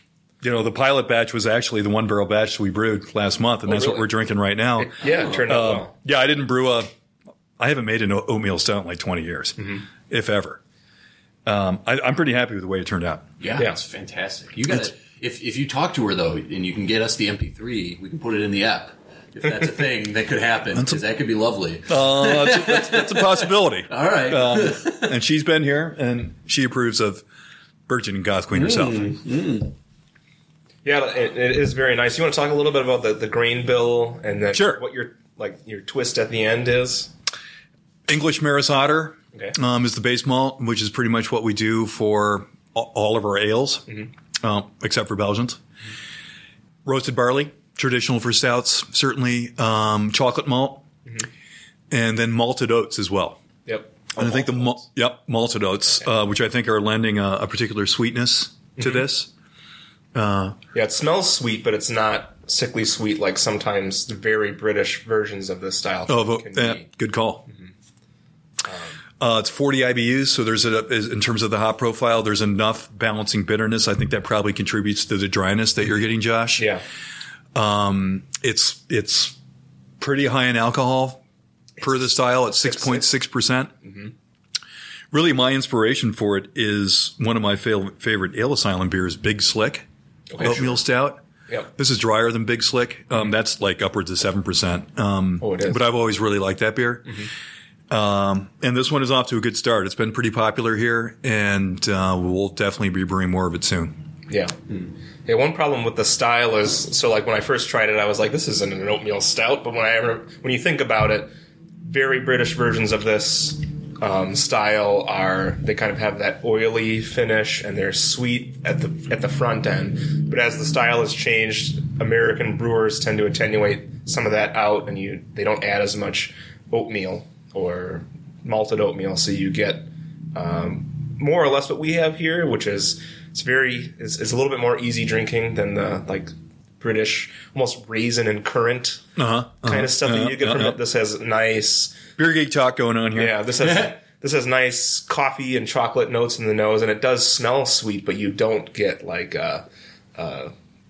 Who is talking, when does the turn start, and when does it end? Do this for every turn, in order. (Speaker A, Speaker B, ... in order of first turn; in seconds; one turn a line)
Speaker A: 0.4-6.9
Speaker B: 3.7-4.1
Speaker B: 4.8-5.9
Speaker A: 7.6-10.6
Speaker A: 11.5-13.3
Speaker C: 13.4-25.1
Speaker A: 20.7-21.0
Speaker A: 21.9-27.2
Speaker A: 27.9-29.2
Speaker C: 28.5-29.7
Speaker B: 30.9-37.1
Speaker A: 34.5-34.8
Speaker A: 38.1-45.6
Speaker A: 46.9-50.9
Speaker A: 51.9-53.4
Speaker B: 53.7-54.8
Speaker A: 54.2-59.3
Speaker B: 58.8-59.0
Speaker A: 60.1-60.6
Speaker B: 60.7-66.8
Speaker A: 66.1-67.5
Speaker A: 69.2-76.8
Speaker B: 76.6-76.8
Speaker A: 77.5-79.4
Speaker A: 80.0-81.2
Speaker A: 81.8-83.7
Speaker B: 82.6-83.0
Speaker B: 83.8-84.1
Speaker A: 85.1-89.9
Speaker B: 90.3-90.8
Speaker A: 90.4-91.2
Speaker A: 91.8-97.2
Speaker B: 95.4-95.8
Speaker A: 97.9-104.0
Speaker B: 104.3-104.6
Speaker B: 105.3-139.0
Speaker A: 139.2-140.8
Speaker B: 139.6-142.0
Speaker A: 142.2-143.4
Speaker B: 143.2-149.6
Speaker C: 143.6-143.9
Speaker B: 150.2-150.5